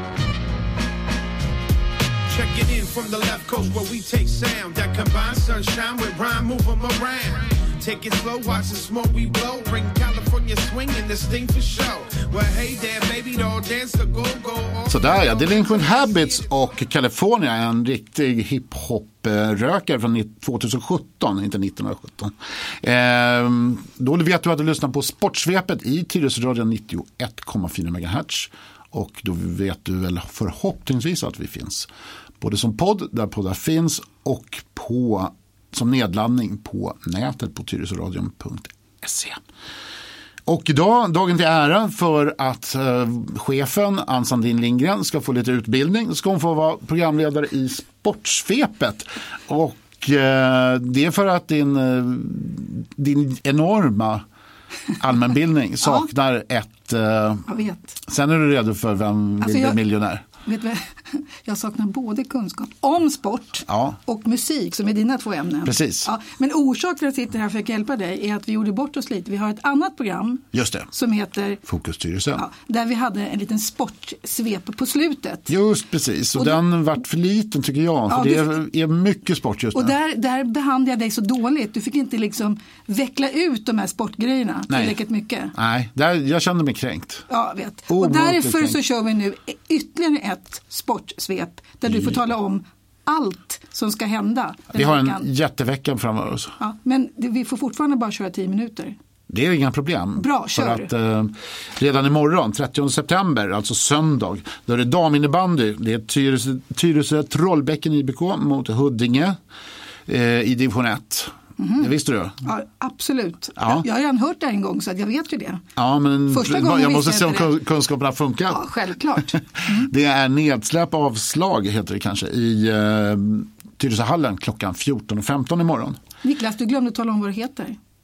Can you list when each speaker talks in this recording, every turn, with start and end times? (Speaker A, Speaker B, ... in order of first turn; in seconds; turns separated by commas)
Speaker A: 2.3-15.0, Speaker B: 14.9-31.9, Speaker B: 32.4-39.4, Speaker B: 40.5-54.2, Speaker B: 55.0-57.5, Speaker C: 57.5-58.0, Speaker B: 58.0-60.2, Speaker C: 59.4-59.8, Speaker C: 60.4-71.6, Speaker B: 63.7-64.0, Speaker B: 65.6-66.1, Speaker B: 70.5-70.9, Speaker B: 71.6-72.4, Speaker C: 72.3-75.5, Speaker B: 75.5-80.0, Speaker C: 78.1-78.5, Speaker C: 79.7-85.5, Speaker B: 84.7-85.0, Speaker B: 85.5-87.3, Speaker C: 87.3-95.2, Speaker B: 87.9-88.8, Speaker B: 94.7-96.5, Speaker C: 96.6-99.0, Speaker B: 99.3-109.4, Speaker C: 100.2-100.9, Speaker B: 110.1-112.4, Speaker C: 111.6-111.9, Speaker C: 112.4-115.6, Speaker B: 113.6-113.8, Speaker B: 115.8-118.6, Speaker C: 116.3-117.5, Speaker C: 118.5-119.9, Speaker B: 119.3-126.0, Speaker C: 126.2-127.8